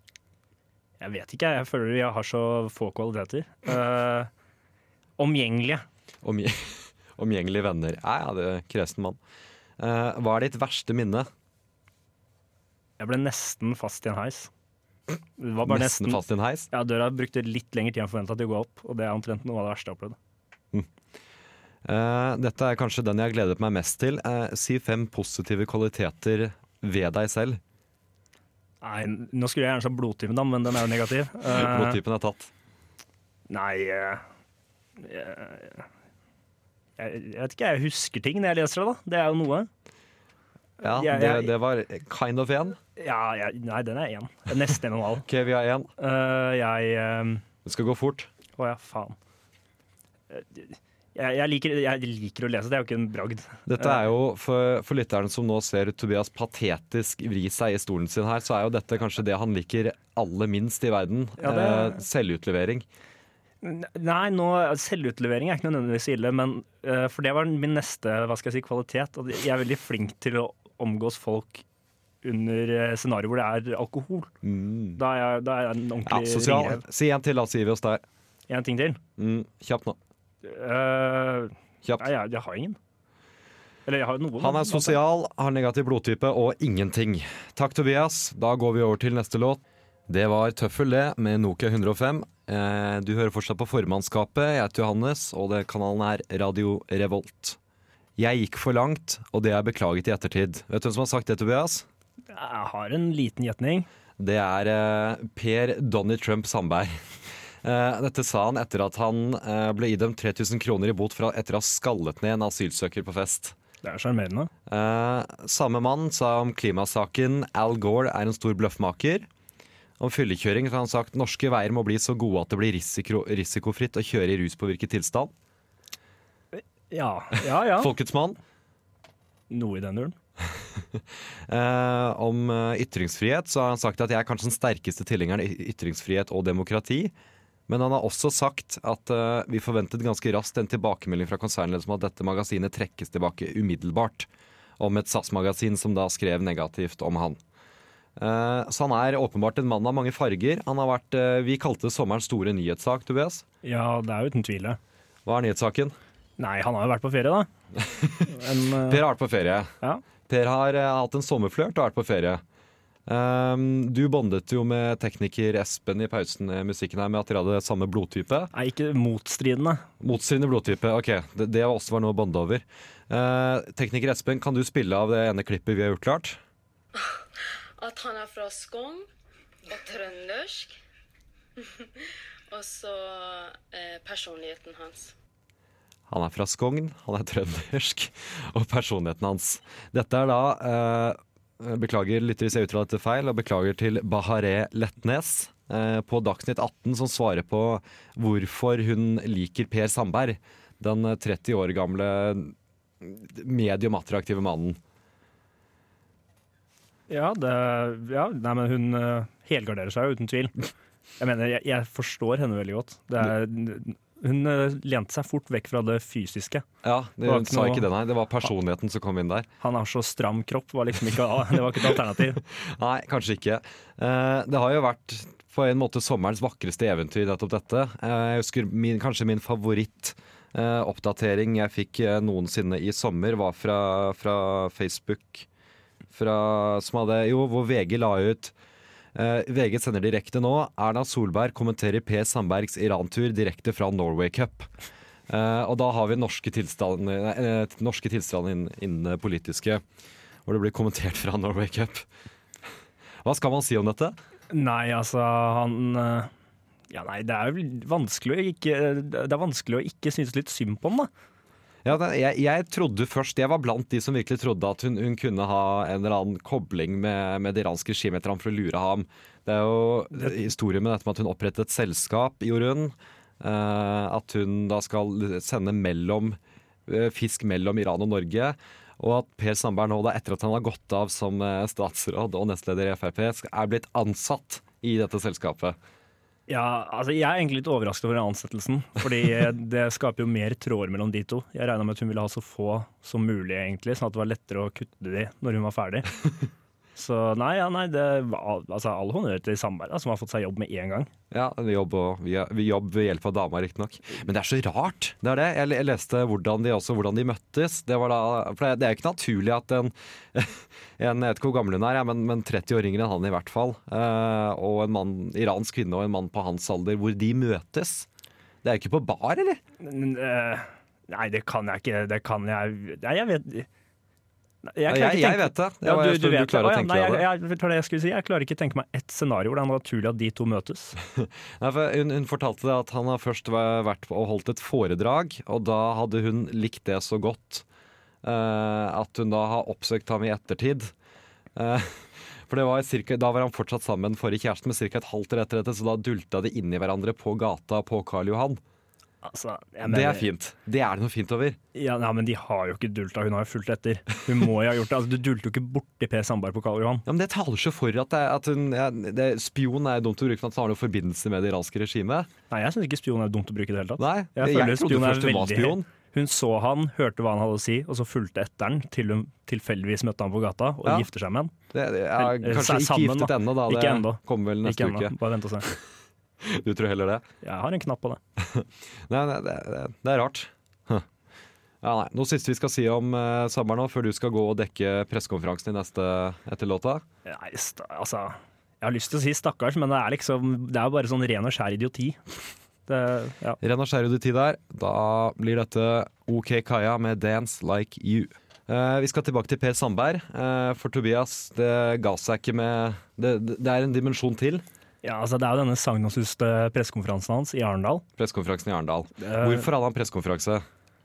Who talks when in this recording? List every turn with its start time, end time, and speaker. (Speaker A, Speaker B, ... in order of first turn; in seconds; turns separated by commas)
Speaker A: 1.0-4.3, Speaker A: 5.2-5.8, Speaker B: 6.2-9.2, Speaker B: 9.8-11.3, Speaker A: 13.0-14.5, Speaker A: 15.4-20.1, Speaker B: 15.6-16.7, Speaker B: 21.8-27.6, Speaker A: 28.8-32.0, Speaker B: 31.5-32.5, Speaker A: 33.5-34.2, Speaker A: 35.0-35.9, Speaker A: 37.0-39.7, Speaker B: 40.8-42.8, Speaker A: 40.9-41.5, Speaker A: 43.0-45.2, Speaker B: 45.2-45.9, Speaker A: 46.0-47.4, Speaker B: 47.6-48.3, Speaker A: 48.6-49.1, Speaker A: 50.3-54.0, Speaker B: 53.7-62.8, Speaker A: 61.4-62.0, Speaker A: 63.6-71.6, Speaker A: 72.2-74.3, Speaker B: 74.4-75.0, Speaker A: 75.0-76.8, Speaker B: 76.0-78.0, Speaker A: 78.5-79.0, Speaker B: 79.2-80.0, Speaker A: 80.4-82.8, Speaker A: 83.8-85.0, Speaker B: 84.4-97.6, Speaker B: 98.2-101.9, Speaker A: 102.3-103.9, Speaker B: 104.2-107.0, Speaker B: 107.6-113.5, Speaker A: 113.8-114.5, Speaker B: 114.7-119.3, Speaker B: 120.0-125.3, Speaker A: 126.5-127.9, Speaker B: 127.7-128.4, Speaker A: 129.5-130.2, Speaker B: 130.8-137.1, Speaker B: 137.7-144.3, Speaker B: 144.8-147.4, Speaker B: 148.2-153.4, Speaker A: 153.6-154.8, Speaker B: 155.2-156.0, Speaker A: 156.4-157.5, Speaker B: 157.8-159.7, Speaker A: 158.2-159.0, Speaker B: 160.3-162.4, Speaker B: 163.1-168.5, Speaker A: 168.5-169.8, Speaker B: 170.0-176.4, Speaker C: 176.9-179.1, Speaker C: 179.7-180.8, Speaker C: 181.6-185.1, Speaker B: 186.1-204.8, Speaker A: 207.1-210.5, Speaker A: 211.2-216.6, Speaker B: 216.8-219.5, Speaker A: 217.2-217.9, Speaker A: 219.6-222.4, Speaker B: 222.4-235.5, Speaker B: 236.1-238.5, Speaker B: 239.1-244.7, Speaker B: 245.3-249.8, Speaker B: 250.4-252.1, Speaker B: 253.2-254.2, Speaker A: 254.5-256.3, Speaker A: 256.9-261.1, Speaker B: 261.8-285.8, Speaker A: 286.5-296.1, Speaker A: 296.9-301.1, Speaker B: 301.3-318.1, Speaker B: 318.6-319.6, Speaker A: 319.8-323.7, Speaker A: 324.6-330.9, Speaker B: 324.9-327.2, Speaker B: 331.0-337.6, Speaker B: 338.2-340.9, Speaker B: 341.5-348.6, Speaker A: 349.2-350.3, Speaker B: 349.8-351.6, Speaker A: 351.7-357.0, Speaker B: 357.1-362.3, Speaker A: 362.5-371.5, Speaker B: 364.0-365.9, Speaker B: 371.7-375.8, Speaker A: 372.1-375.7, Speaker B: 376.4-377.2, Speaker A: 377.4-378.2, Speaker B: 378.4-381.1, Speaker B: 381.8-387.0, Speaker A: 387.2-392.2, Speaker A: 392.9-393.6, Speaker B: 393.6-404.6, Speaker A: 405.0-408.0, Speaker B: 408.2-410.6, Speaker A: 409.2-409.7